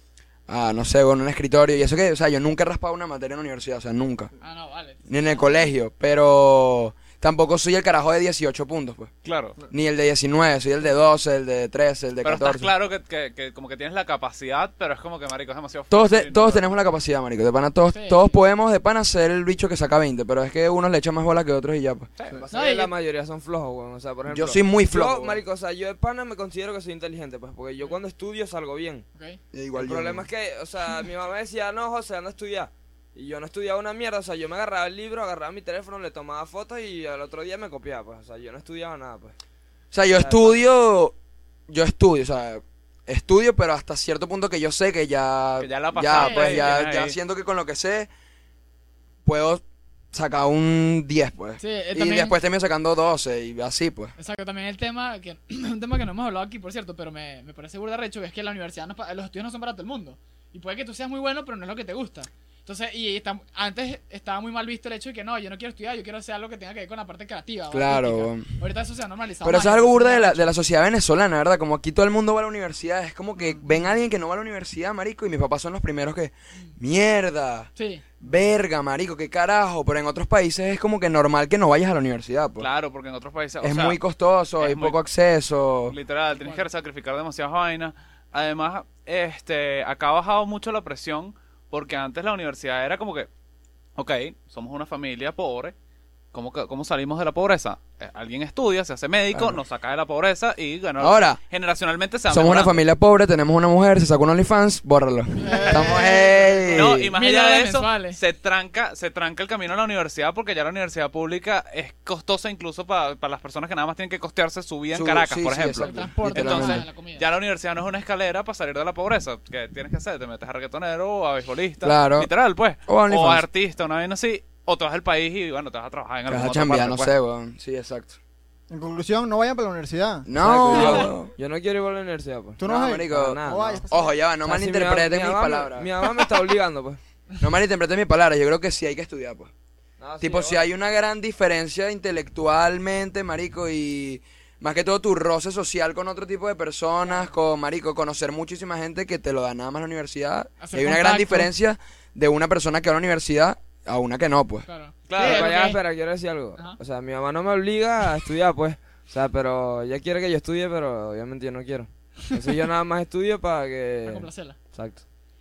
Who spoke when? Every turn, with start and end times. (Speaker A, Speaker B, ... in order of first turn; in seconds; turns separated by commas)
Speaker A: 0.5-4.3, Speaker B: 4.4-5.6, Speaker A: 5.1-9.1, Speaker C: 9.2-9.6, Speaker A: 9.7-12.7, Speaker C: 12.2-16.7, Speaker A: 15.9-22.1, Speaker B: 17.9-18.4, Speaker D: 22.4-29.1, Speaker B: 22.5-22.9, Speaker A: 24.3-25.4, Speaker B: 29.1-29.4, Speaker A: 29.5-30.3, Speaker D: 29.7-39.4, Speaker A: 39.9-41.1, Speaker D: 40.1-40.7, Speaker A: 41.7-48.1, Speaker C: 45.6-47.1, Speaker B: 46.1-46.7, Speaker A: 49.2-54.1, Speaker B: 51.6-52.4, Speaker B: 54.2-70.5, Speaker A: 67.7-68.6, Speaker A: 69.4-82.7, Speaker B: 73.4-74.0, Speaker B: 77.8-78.2, Speaker C: 82.6-84.0, Speaker A: 83.6-86.0, Speaker C: 84.6-85.0, Speaker C: 85.9-93.3, Speaker B: 86.3-86.7, Speaker C: 94.0-95.8, Speaker C: 96.3-102.8, Speaker A: 99.3-99.6, Speaker A: 101.0-101.4, Speaker A: 102.3-107.1, Speaker B: 105.4-108.2, Speaker E: 105.5-106.2, Speaker C: 106.7-127.1, Speaker A: 114.9-116.8, Speaker B: 115.8-117.3, Speaker A: 121.8-122.3, Speaker A: 122.9-123.5, Speaker A: 126.3-128.2, Speaker E: 128.7-131.0, Speaker A: 130.3-131.3, Speaker D: 130.4-133.9, Speaker E: 132.6-134.1, Speaker A: 132.6-136.1, Speaker D: 134.4-137.0, Speaker A: 137.4-139.5, Speaker D: 140.0-140.7, Speaker A: 140.2-154.7, Speaker B: 147.1-147.3, Speaker B: 150.6-151.5, Speaker B: 154.7-155.8, Speaker C: 155.1-155.6, Speaker D: 155.2-165.0, Speaker B: 164.1-164.6